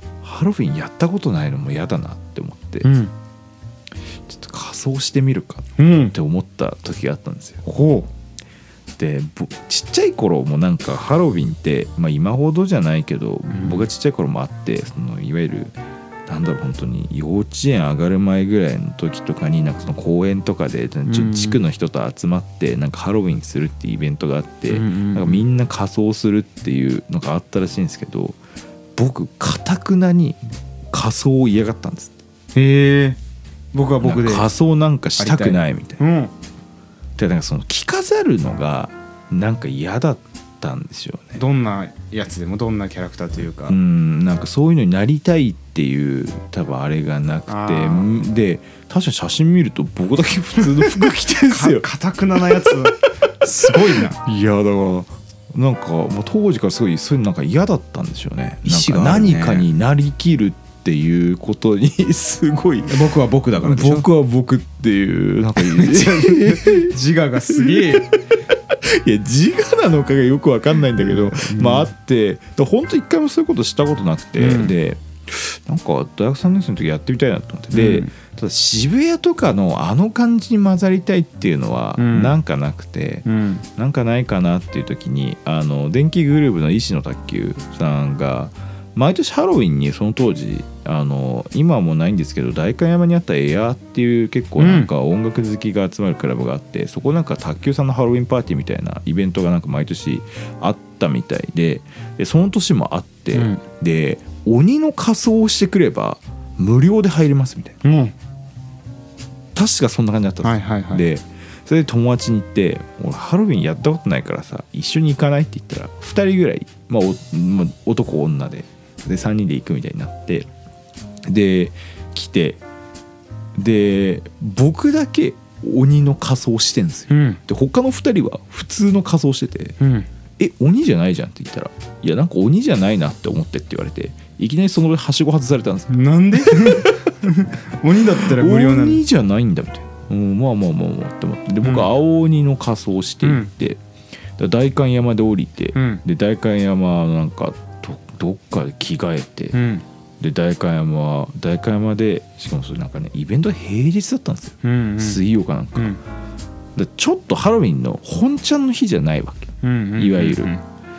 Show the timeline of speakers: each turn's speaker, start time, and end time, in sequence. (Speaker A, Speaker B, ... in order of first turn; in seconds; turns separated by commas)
Speaker A: 0.2-2.9, Speaker B: 2.8-3.1, Speaker A: 4.1-7.7, Speaker B: 5.8-6.1, Speaker B: 7.6-8.1, Speaker A: 9.0-15.7, Speaker B: 13.5-13.8, Speaker A: 16.3-28.4, Speaker B: 21.1-21.6, Speaker B: 24.7-25.4, Speaker A: 28.9-32.2, Speaker B: 32.5-33.2, Speaker B: 33.7-34.5, Speaker A: 34.0-36.0, Speaker B: 35.2-36.3, Speaker A: 37.2-41.4, Speaker B: 41.4-43.8, Speaker A: 43.7-51.9, Speaker B: 47.5-48.1, Speaker B: 50.7-54.2, Speaker A: 54.2-63.0, Speaker B: 58.6-59.7, Speaker B: 62.9-64.1, Speaker A: 63.6-67.0, Speaker B: 65.5-68.1, Speaker A: 67.5-68.1, Speaker A: 68.8-107.8, Speaker B: 71.0-71.9, Speaker B: 74.4-74.7, Speaker B: 77.7-78.1, Speaker B: 82.0-82.3, Speaker B: 83.2-83.6, Speaker B: 94.6-94.9, Speaker B: 103.3-103.6, Speaker B: 107.8-108.1, Speaker A: 109.5-120.5, Speaker B: 110.4-111.0, Speaker A: 121.3-122.6, Speaker A: 123.5-129.8, Speaker B: 127.1-127.4, Speaker B: 129.8-130.1, Speaker A: 130.4-137.1, Speaker B: 135.9-139.0, Speaker A: 138.2-143.8, Speaker B: 141.6-141.9, Speaker B: 143.2-143.5, Speaker A: 144.4-149.6, Speaker B: 145.7-146.0, Speaker B: 149.5-149.8, Speaker A: 150.2-156.0, Speaker B: 154.6-155.2, Speaker A: 156.8-160.5, Speaker B: 159.6-160.6